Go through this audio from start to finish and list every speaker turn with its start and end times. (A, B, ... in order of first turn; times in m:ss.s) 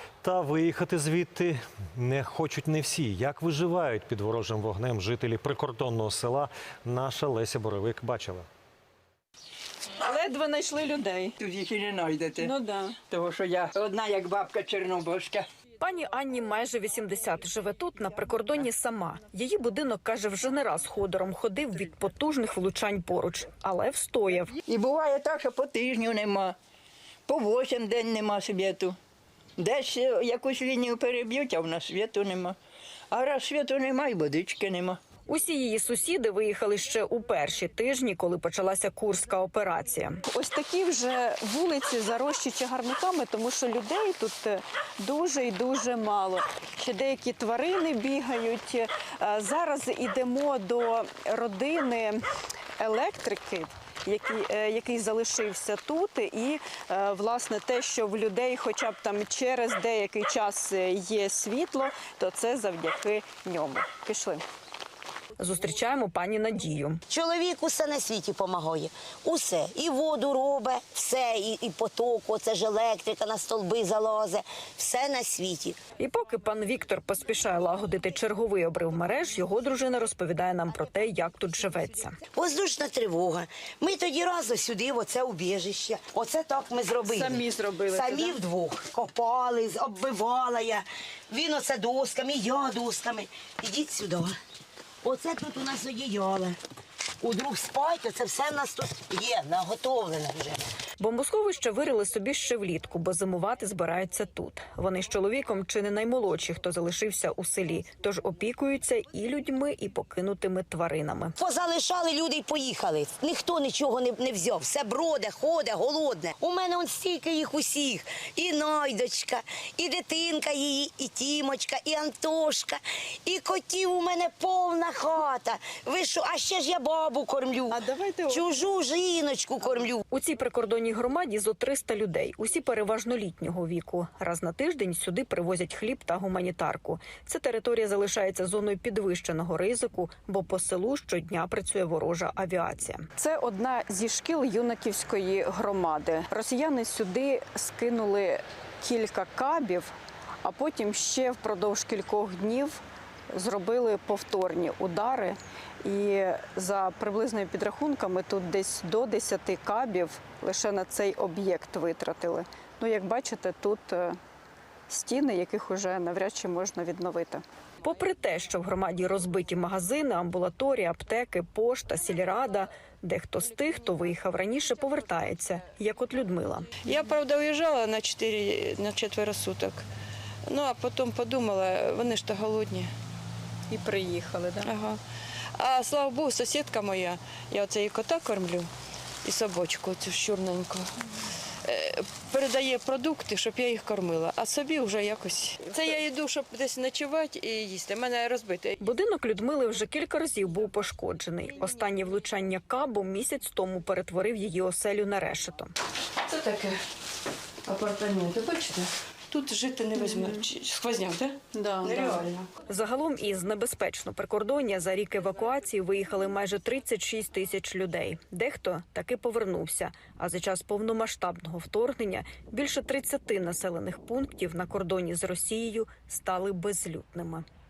0:00.2-0:08.4 A
0:09.9-0:11.4 B
0:11.4-0:12.5 C
0:12.4-0:13.0 B
0:13.1-0:15.5 C
0:15.8-0:24.5 D
0:24.7-0:26.6 C
0:27.3-0:29.0 C
0:29.6-0:32.6 C
0:33.1-0:35.0 C
0:35.3-0:40.2 D
0:40.3-0:52.2 B
0:52.8-1:04.4 B
1:05.4-1:07.0 D
1:07.1-1:15.8 E
1:16.0-1:22.2 D
1:22.3-1:34.3 E
1:27.1-1:28.3 B
1:35.0-1:36.6 E
1:37.2-1:40.6 E
1:41.0-1:51.4 D
1:51.4-2:10.0 E
2:07.7-2:08.4 B
2:10.1-2:23.1 D
2:23.2-2:29.9 B
2:30.4-2:32.8 B
2:33.3-2:44.2 B
2:44.9-2:47.4 B
2:47.8-2:56.8 D
2:56.8-2:59.8 F
3:00.5-3:02.9 F
3:03.7-3:04.7 B
3:04.6-3:05.0 F
3:05.5-3:08.7 F
3:09.2-3:10.9 F
3:11.6-3:18.8 F
3:18.8-3:25.7 D
3:26.2-3:26.8 F
3:27.6-3:32.5 F
3:30.0-3:30.4 B
3:31.5-3:32.2 B
3:32.7-3:47.4 D